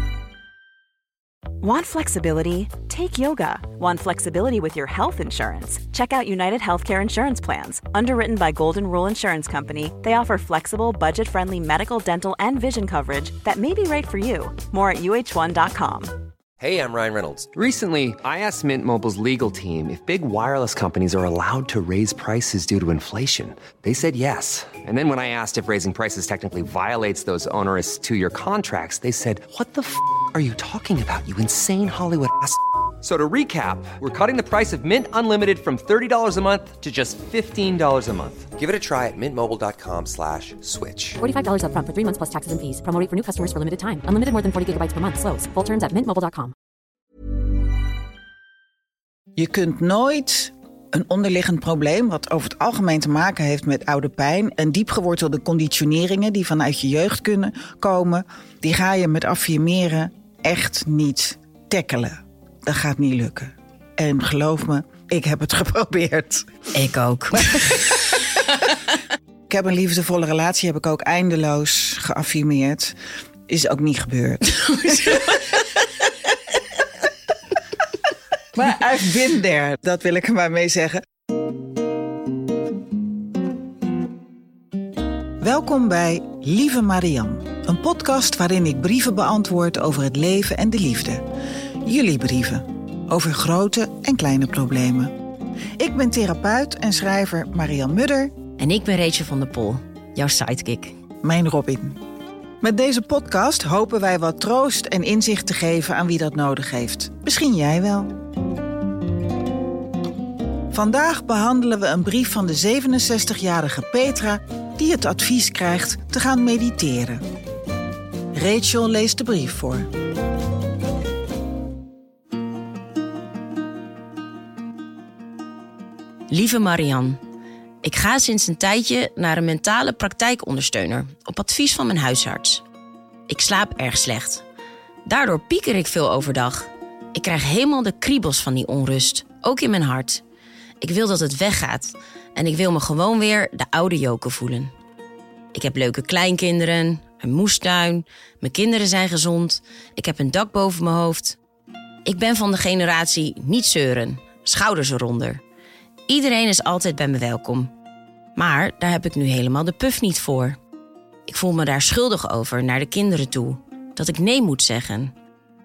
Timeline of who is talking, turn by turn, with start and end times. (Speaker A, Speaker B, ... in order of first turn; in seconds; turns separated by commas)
Speaker A: 1.6-16.1, Speaker B: 16.6-41.2, Speaker C: 41.2-46.5, Speaker D: 49.4-66.5, Speaker E: 66.7-67.8, Speaker D: 69.5-72.9, Speaker D: 73.5-75.6, Speaker E: 74.8-75.3, Speaker D: 78.5-81.0, Speaker D: 85.4-91.2, Speaker D: 91.8-95.1, Speaker D: 95.8-98.3, Speaker E: 98.6-101.0, Speaker D: 101.2-102.0, Speaker D: 102.6-108.2, Speaker D: 110.7-117.2, Speaker D: 118.3-119.9, Speaker E: 126.3-127.2, Speaker E: 127.8-132.6, Speaker E: 133.3-134.4, Speaker E: 135.0-140.2, Speaker E: 140.8-144.7, Speaker E: 145.5-151.4, Speaker E: 152.0-155.4, Speaker E: 156.1-157.7, Speaker E: 158.3-160.6, Speaker E: 161.3-165.1